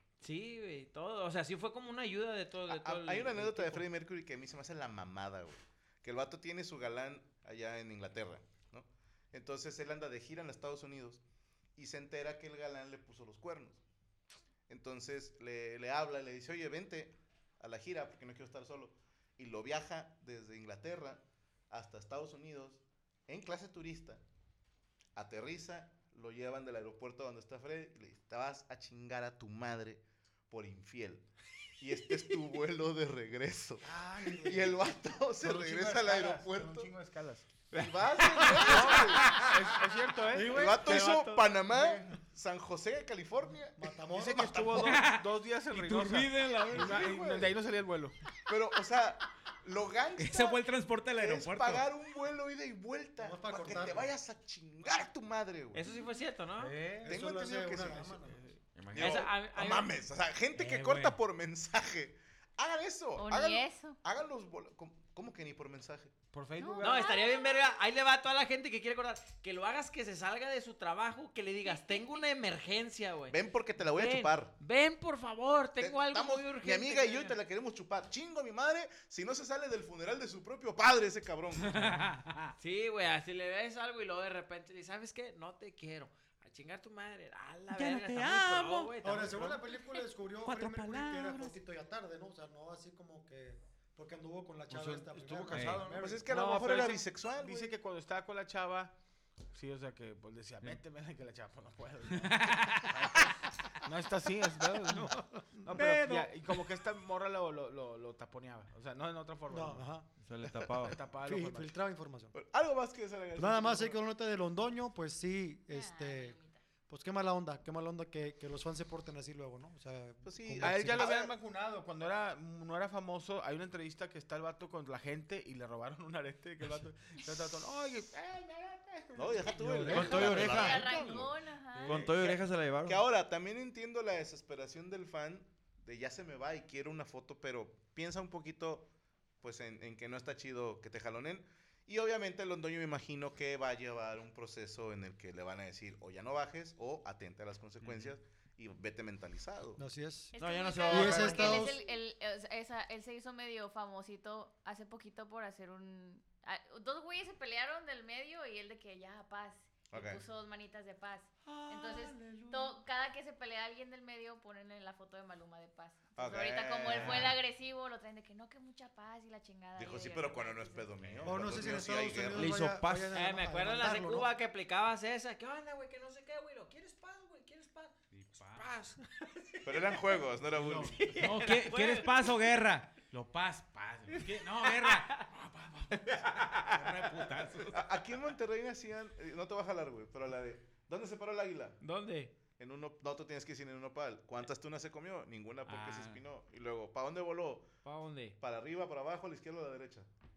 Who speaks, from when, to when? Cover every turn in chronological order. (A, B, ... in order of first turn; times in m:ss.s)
0:00.2-0:03.8 A
0:02.7-0:11.2 B
0:11.8-0:13.8 B
0:14.7-0:24.2 B
0:25.2-0:31.3 B
0:31.8-0:36.9 B
0:33.8-0:34.8 C
0:34.3-0:34.6 D
0:35.4-0:42.2 C
0:37.7-0:39.8 B
0:40.3-0:40.7 D
0:40.4-0:43.8 B
0:40.4-0:41.4 A
0:43.8-0:44.9 D
0:44.1-0:48.2 C
0:44.7-0:47.5 E
0:46.8-0:47.4 B
0:48.5-0:50.6 B
0:50.2-0:51.9 E
0:51.2-0:55.8 B
0:53.2-0:54.1 D
0:55.7-0:56.8 A
0:56.6-0:57.2 C
0:57.0-0:58.4 D
0:57.0-0:58.2 B
0:58.3-0:58.6 C
0:58.7-0:59.2 F
0:58.9-0:59.9 A
0:58.9-1:06.1 B
1:00.5-1:01.2 E
1:03.2-1:04.0 G
1:06.3-1:07.1 C
1:06.6-1:07.7 G
1:06.8-1:13.4 A
1:11.6-1:12.2 G
1:13.3-1:14.5 B
1:13.9-1:17.3 A
1:15.8-1:22.0 B
1:21.6-1:22.5 E
1:22.6-1:29.6 A
1:27.7-1:28.9 E
1:29.0-1:36.2 D
1:30.4-1:31.6 E
1:34.7-1:38.9 C
1:35.5-1:35.8 E
1:36.0-1:37.7 B
1:39.5-1:43.3 C
1:42.2-1:42.9 E
1:43.8-1:49.9 C
1:45.0-1:45.7 D
1:45.7-1:46.5 E
1:49.5-1:50.1 D
1:50.2-1:51.0 F
1:50.8-1:51.8 C
1:51.2-1:52.3 D
1:52.3-1:54.0 B
1:53.4-1:56.4 D
1:55.7-1:56.6 G
1:56.9-2:01.1 D
2:00.2-2:01.3 B
2:00.6-2:10.4 C
2:09.1-2:11.3 B
2:09.5-2:12.0 G
2:09.7-2:10.9 F
2:11.8-2:13.0 F
2:11.9-2:18.9 B
2:19.4-2:29.8 B
2:27.8-2:28.1 E
2:29.8-2:30.3 D
2:30.3-2:51.0 G
2:30.4-2:31.7 F
2:30.9-2:31.8 D
2:39.9-2:40.2 B
2:46.2-2:47.4 B
2:46.9-2:47.3 E
2:49.7-2:52.6 B
2:51.0-2:51.4 E
2:51.2-2:54.3 D
2:52.3-2:53.2 F
2:53.1-2:57.9 A
2:58.1-2:58.7 E
2:58.5-3:02.3 A
2:59.6-3:01.0 B
3:00.7-3:07.8 E
3:04.1-3:05.2 A
3:05.9-3:07.2 A
3:07.7-3:11.8 B
3:11.8-3:12.3 A
3:12.6-3:17.7 B
3:15.7-3:16.2 E
3:17.8-3:18.4 A
3:18.4-3:20.1 B